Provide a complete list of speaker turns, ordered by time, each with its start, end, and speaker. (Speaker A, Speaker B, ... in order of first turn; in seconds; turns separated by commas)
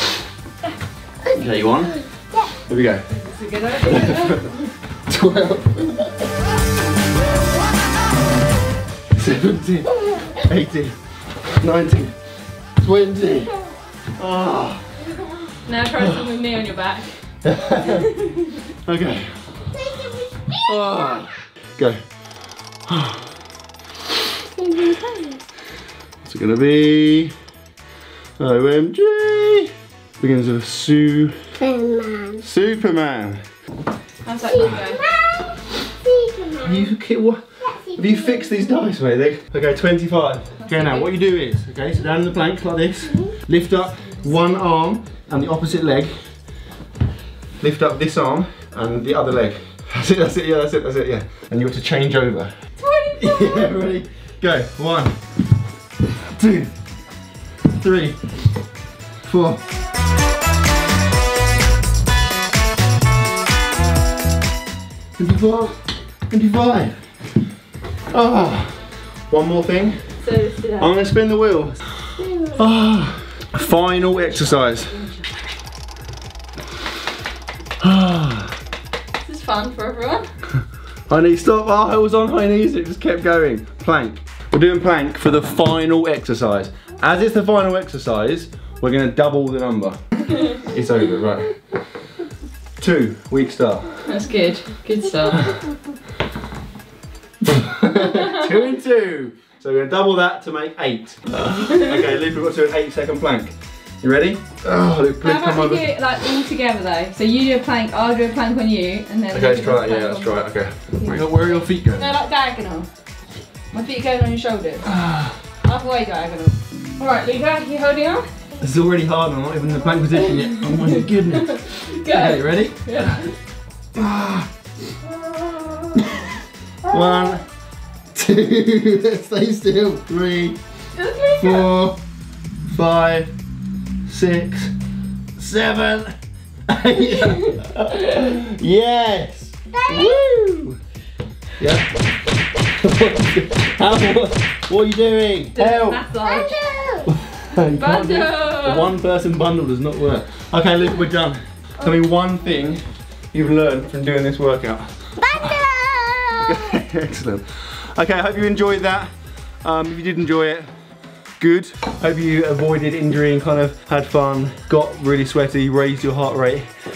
Speaker A: 1.3-2.0, Speaker A: 2.6-3.0, Speaker B: 3.2-4.7, Speaker A: 3.8-4.5, Speaker A: 5.1-6.2, Speaker A: 9.1-10.9, Speaker A: 11.6-12.1, Speaker A: 12.8-13.6, Speaker A: 14.2-14.8, Speaker B: 15.7-17.1, Speaker A: 17.4-18.1, Speaker B: 17.9-18.5, Speaker A: 18.8-19.6, Speaker C: 19.7-21.2, Speaker A: 20.6-22.0, Speaker A: 22.9-23.3, Speaker C: 24.6-25.4, Speaker A: 26.2-27.3, Speaker A: 28.4-31.3, Speaker C: 31.6-32.4, Speaker A: 32.4-33.4, Speaker B: 34.2-35.0, Speaker C: 34.4-36.9, Speaker A: 36.6-46.2, Speaker C: 37.6-38.8, Speaker B: 40.6-41.1, Speaker A: 47.6-52.5, Speaker B: 52.8-53.8, Speaker A: 53.1-55.2, Speaker A: 56.3-56.7, Speaker A: 57.7-58.2, Speaker A: 59.2-59.6, Speaker A: 65.2-67.0, Speaker A: 68.1-70.0, Speaker B: 70.2-70.9, Speaker A: 70.8-71.9, Speaker C: 72.2-72.7, Speaker A: 72.6-75.0, Speaker B: 73.9-75.1, Speaker A: 77.8-78.5, Speaker B: 79.2-80.3, Speaker A: 81.1-90.0, Speaker A: 90.5-91.5, Speaker A: 92.8-94.0, Speaker B: 94.0-95.6, Speaker A: 97.4-105.9, Speaker B: 105.2-110.4, Speaker A: 109.3-112.1, Speaker B: 110.9-112.9, Speaker B: 113.7-114.9, Speaker A: 114.8-115.3, Speaker B: 115.6-118.3, Speaker A: 118.6-122.8, Speaker B: 120.8-123.3, Speaker A: 124.0-124.5, Speaker A: 126.9-127.4, Speaker A: 128.1-130.6, Speaker B: 130.9-131.7, Speaker A: 131.4-132.0, Speaker A: 132.7-133.3, Speaker A: 134.1-134.7, Speaker A: 135.4-136.1, Speaker A: 136.7-140.8, Speaker B: 137.2-137.6, Speaker C: 139.7-140.4, Speaker A: 141.6-142.0, Speaker A: 142.6-146.0, Speaker B: 145.5-146.6, Speaker C: 146.1-147.1, Speaker A: 147.1-152.8, Speaker B: 147.6-148.9, Speaker A: 153.3-155.1, Speaker C: 155.2-156.8, Speaker A: 156.4-159.1, Speaker A: 159.6-160.7, Speaker A: 161.4-166.6